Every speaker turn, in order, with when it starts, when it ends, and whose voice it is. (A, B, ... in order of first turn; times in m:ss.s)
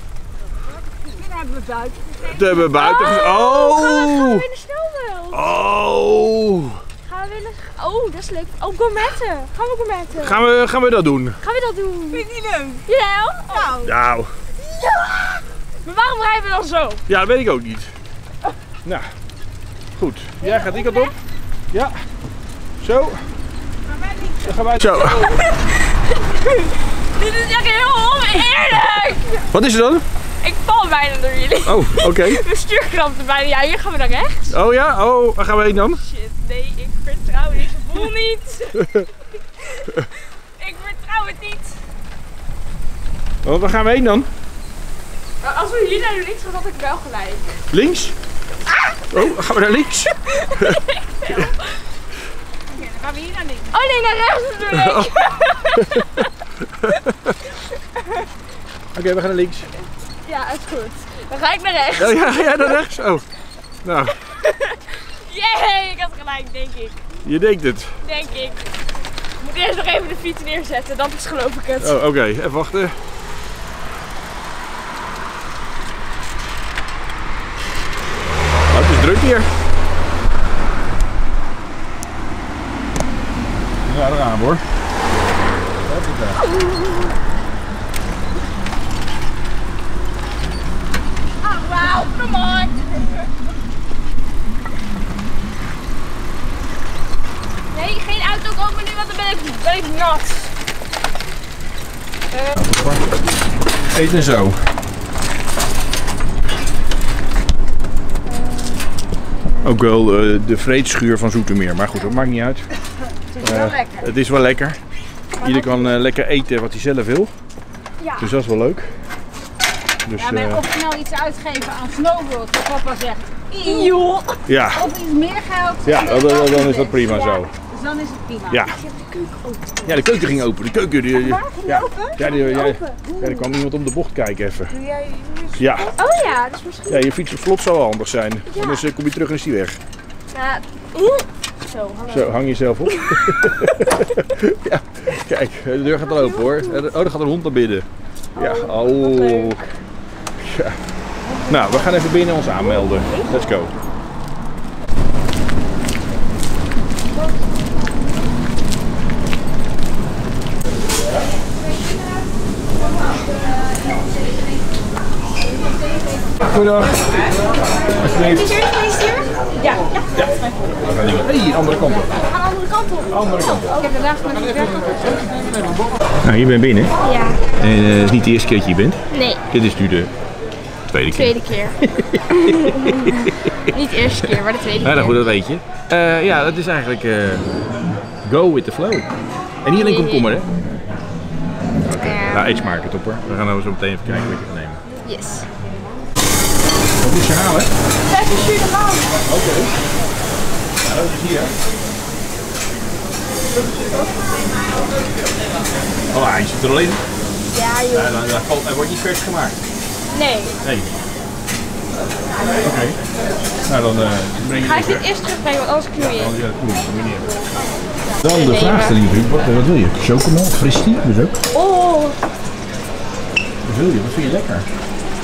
0:01.0-0:02.7 A
0:02.2-0:04.5 B
0:02.7-0:05.5 C
0:05.3-0:06.8 B
0:07.0-0:10.4 C
0:10.2-0:11.4 B
0:11.4-0:12.2 C
0:12.1-0:12.8 A
0:12.9-0:13.8 C
0:13.5-0:13.9 A
0:13.8-0:14.3 B
0:15.8-0:17.0 C
0:17.1-0:17.9 B
0:18.8-0:19.1 B
0:20.0-0:21.1 B
0:20.4-0:21.1 C
0:21.7-0:22.0 B
0:22.8-0:23.3 B
0:23.9-0:24.5 A
0:24.4-0:25.4 B
0:24.9-0:29.4 C
0:29.5-0:30.1 B
0:30.4-0:34.6 C
0:31.6-0:32.4 B
0:34.5-0:36.0 B
0:35.9-0:39.0 C
0:39.6-0:41.8 C
0:43.4-0:44.3 B
0:45.4-0:47.6 C
0:47.7-0:48.2 B
0:49.1-0:51.5 B
0:50.3-0:51.8 C
0:52.7-0:53.7 A
0:53.7-0:56.3 C
0:54.7-0:57.4 B
0:58.9-0:59.7 B
1:00.2-1:02.8 C
1:02.0-1:03.2 B
1:03.8-1:04.2 B
1:04.2-1:07.0 C
1:07.2-1:08.0 B
1:08.0-1:08.7 C
1:09.4-1:12.0 C
1:11.8-1:13.0 B
1:18.7-1:19.5 B
1:23.8-1:24.7 B
1:25.8-1:26.4 B
1:31.5-1:32.7 C
1:31.9-1:33.0 A
1:37.7-1:40.5 C
1:42.6-1:43.1 B
1:43.9-1:44.7 B
1:48.3-1:48.8 C
1:49.6-1:52.7 B
1:53.3-1:54.1 A
1:53.4-1:54.8 B
1:55.4-1:56.0 C
1:55.4-1:57.3 B
1:58.0-1:58.3 C
1:58.2-1:59.0 B
2:00.0-2:00.6 B
2:00.2-2:04.0 A
2:03.6-2:04.4 C
2:04.5-2:04.9 B
2:04.7-2:08.6 A
2:05.8-2:07.5 B
2:07.0-2:07.4 C
2:08.5-2:08.8 B
2:08.6-2:10.2 C
2:09.8-2:14.7 B
2:11.1-2:13.5 A
2:12.2-2:13.0 C
2:14.7-2:16.2 A
2:15.6-2:15.9 B
2:16.0-2:17.1 C
2:16.9-2:19.8 B
2:18.5-2:18.9 C
2:20.3-2:22.3 C
2:22.1-2:29.6 B
2:22.9-2:24.0 C
2:26.1-2:26.8 C
2:28.4-2:29.7 C
2:30.4-2:30.8 B
2:31.5-2:33.7 B
2:33.0-2:33.4 C
2:46.4-2:47.4 B
2:48.0-2:48.5 B
2:48.2-2:49.9 C
2:50.1-2:52.2 B
2:52.3-2:53.1 C
2:53.1-2:53.8 B
2:53.7-2:54.4 C
2:53.7-2:55.6 A
2:56.2-2:56.9 B
2:57.0-2:57.4 C
2:57.6-3:00.1 B
2:59.1-2:59.4 C
3:00.9-3:04.3 B
3:01.1-3:05.2 C
3:04.8-3:07.4 B
3:08.2-3:09.1 B
3:09.6-3:10.5 B
3:09.7-3:10.3 C
3:11.8-3:14.8 B
3:12.0-3:12.6 C
3:15.0-3:15.5 C
3:17.0-3:17.7 B
3:18.1-3:19.1 C
3:19.3-3:19.7 B
3:20.8-3:21.5 B
3:26.1-3:27.0 B
3:27.5-3:28.2 C
3:27.9-3:29.6 B
3:30.1-3:30.5 C
3:30.6-3:30.9 B
3:32.6-3:33.0 B
3:33.7-3:35.1 B
3:34.6-3:36.3 C
3:36.0-3:37.4 B
3:37.6-3:39.0 C
3:38.2-3:41.4 B
3:41.5-3:42.2 C
3:43.6-3:44.7 B